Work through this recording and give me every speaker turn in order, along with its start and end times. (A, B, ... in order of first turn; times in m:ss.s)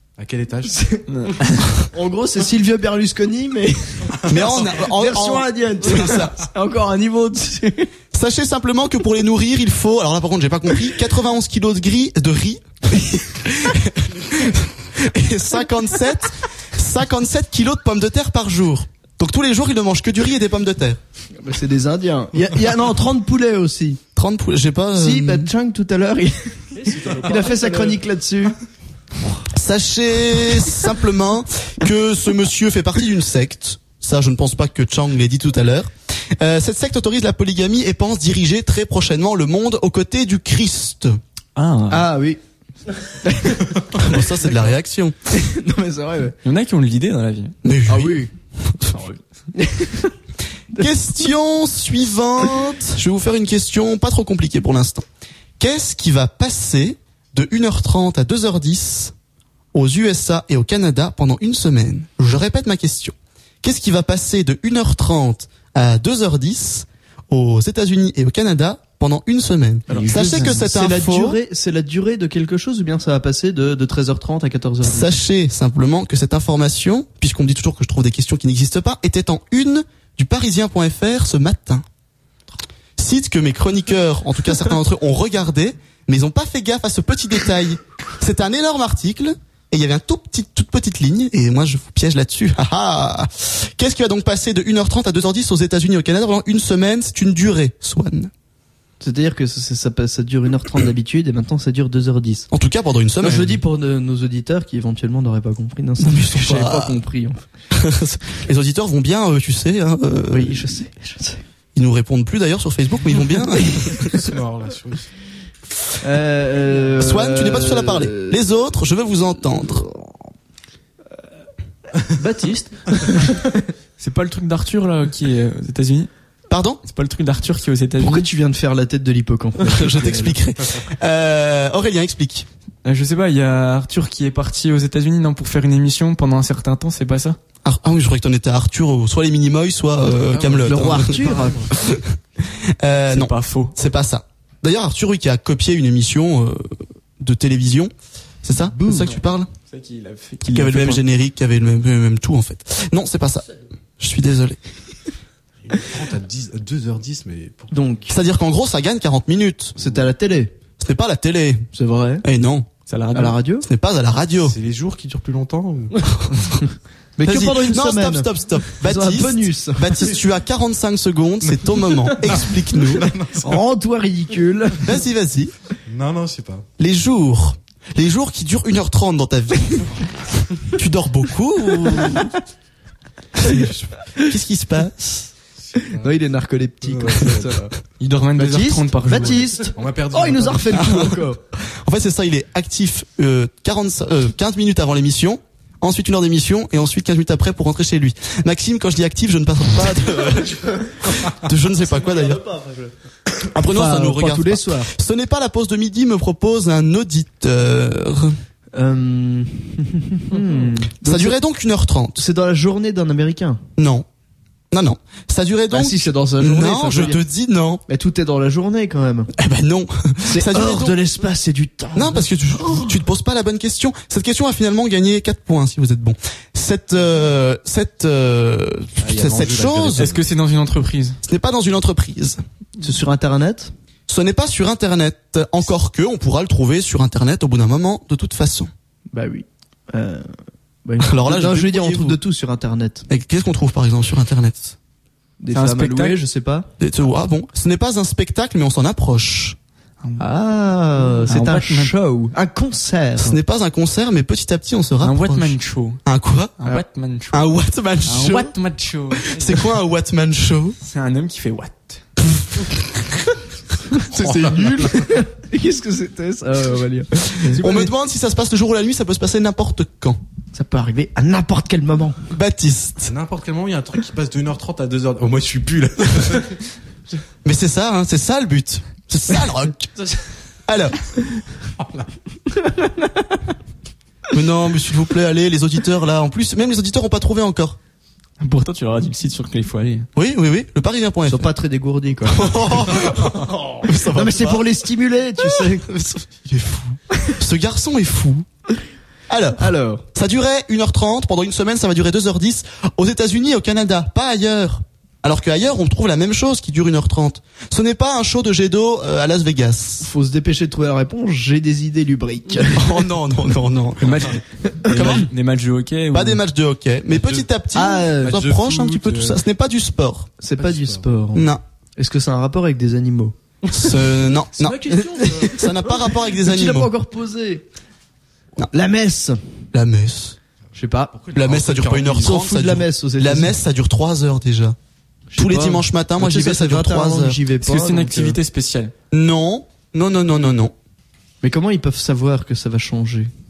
0:00.2-0:00.8 A
0:00.7-0:01.0 B
0:01.1-0:01.6 C
0:01.9-0:04.2 B
0:04.3-0:06.4 D
0:04.8-0:07.9 B
0:08.1-0:21.0 D
0:21.4-0:24.0 B
0:24.2-0:25.5 D
0:25.0-0:28.6 B
0:26.7-0:28.0 E
0:29.5-0:41.2 D
0:41.6-0:42.1 C
0:41.9-0:42.4 B
0:43.2-0:43.6 B
0:44.0-0:45.1 D
0:45.3-0:46.4 B
0:46.4-0:47.5 C
0:47.6-0:49.0 D
0:47.9-0:48.3 B
0:49.6-0:50.1 B
0:50.8-0:55.1 D
0:55.6-0:59.1 D
0:59.7-1:11.4 D
1:09.9-1:10.6 C
1:09.9-1:15.2 B
1:14.8-1:21.8 D
1:23.0-1:38.3 D
1:39.0-1:42.5 B
1:42.5-1:43.6 D
1:43.2-1:47.4 B
1:46.0-1:47.0 D
1:47.7-1:50.6 D
1:50.3-1:51.4 B
1:51.8-1:54.2 D
1:53.9-1:55.1 A
1:56.0-1:58.4 B
1:57.0-1:59.8 D
2:02.2-2:03.2 E
2:04.0-2:06.1 C
2:06.5-2:06.8 D
2:06.9-2:08.3 C
2:08.0-2:10.4 B
2:09.6-2:12.5 D
2:12.8-2:17.4 C
2:17.6-2:22.0 D
2:20.1-2:21.9 A
2:20.6-2:21.7 B
2:22.8-2:27.9 D
2:23.1-2:23.7 C
2:28.4-2:29.5 D
2:28.5-2:29.2 B
2:29.7-2:31.0 C
2:30.4-2:33.5 D
2:34.0-2:34.6 D
2:35.6-2:37.7 A
2:37.7-2:38.1 B
2:38.1-2:39.8 D
2:39.8-2:40.5 B
2:40.8-2:41.7 D
2:41.7-2:42.2 B
2:42.2-2:42.7 D
2:42.9-2:43.4 C
2:43.1-2:43.7 B
2:43.6-2:44.6 D
2:44.4-2:46.3 A
2:46.2-2:46.5 D
2:47.2-2:49.9 B
2:47.2-2:53.1 D
2:52.1-2:53.6 A
2:53.4-2:54.9 B
2:54.8-2:55.5 D
2:55.9-2:56.7 A
2:56.8-3:00.0 D
3:00.7-3:02.4 D
3:03.4-3:05.3 D
3:05.7-3:06.2 A
3:05.8-3:07.7 B
3:06.8-3:07.7 A
3:08.0-3:09.7 C
3:08.4-3:11.4 B
3:09.7-3:11.1 A
3:10.7-3:22.4 D
3:21.8-3:22.9 E
3:23.5-3:28.4 D
3:23.6-3:24.9 B
3:28.8-3:31.4 B
3:31.0-3:32.2 D
3:32.2-3:33.6 B
3:33.8-3:34.1 D
3:34.7-3:37.8 D
3:35.7-3:37.2 B
3:37.9-3:39.3 B
3:39.4-3:41.0 D
3:40.2-3:42.9 B
3:42.0-3:50.1 D
3:49.0-3:50.2 A
3:50.0-3:51.2 C
3:51.2-3:52.4 D
3:52.8-3:53.7 B
3:54.1-3:58.7 D
3:59.1-4:00.3 B
4:00.8-4:03.1 B
4:01.0-4:02.2 D
4:03.1-4:04.8 D
4:05.4-4:06.7 B
4:05.5-4:06.2 C
4:06.8-4:09.6 D
4:10.2-4:13.4 B
4:11.3-4:11.9 C
4:13.2-4:16.6 D
4:15.0-4:16.0 C
4:16.6-4:17.5 C
4:17.3-4:18.6 D
4:18.0-4:19.6 C
4:19.2-4:20.8 D
4:20.8-4:22.0 C
4:24.1-4:25.1 A
4:24.2-4:24.9 D
4:24.7-4:27.9 B
4:27.5-4:30.2 D
4:30.5-4:32.2 B
4:32.3-4:33.1 D
4:33.1-4:36.6 A
4:37.4-4:39.9 D
4:40.7-4:41.0 D
4:41.8-4:42.0 A
4:44.3-4:47.8 D
4:48.4-4:50.1 C
4:50.2-4:51.5 D
4:51.3-4:52.5 B
4:52.3-4:54.6 D
4:54.1-4:55.9 B
4:55.4-4:58.5 D
4:59.3-5:10.1 D
4:59.6-5:00.0 B
5:10.0-5:12.9 B
5:12.7-5:14.4 D
5:14.0-5:16.4 C
5:14.9-5:15.3 D
5:16.1-5:20.3 D
5:17.1-5:17.5 A
5:17.7-5:18.4 B
5:18.2-5:19.4 A
5:20.4-5:23.4 B
5:20.6-5:21.1 A
5:21.4-5:21.6 D
5:23.7-5:26.9 D
5:24.6-5:25.7 E
5:24.9-5:27.6 B
5:28.7-5:29.4 B
5:29.7-5:30.4 D
5:30.7-5:31.1 B
5:31.1-5:32.4 A
5:31.3-5:34.8 D
5:32.2-5:33.6 B
5:35.3-5:38.4 B
5:35.4-5:37.4 D
5:37.6-5:38.9 C
5:39.1-5:40.7 D
5:41.4-5:43.3 B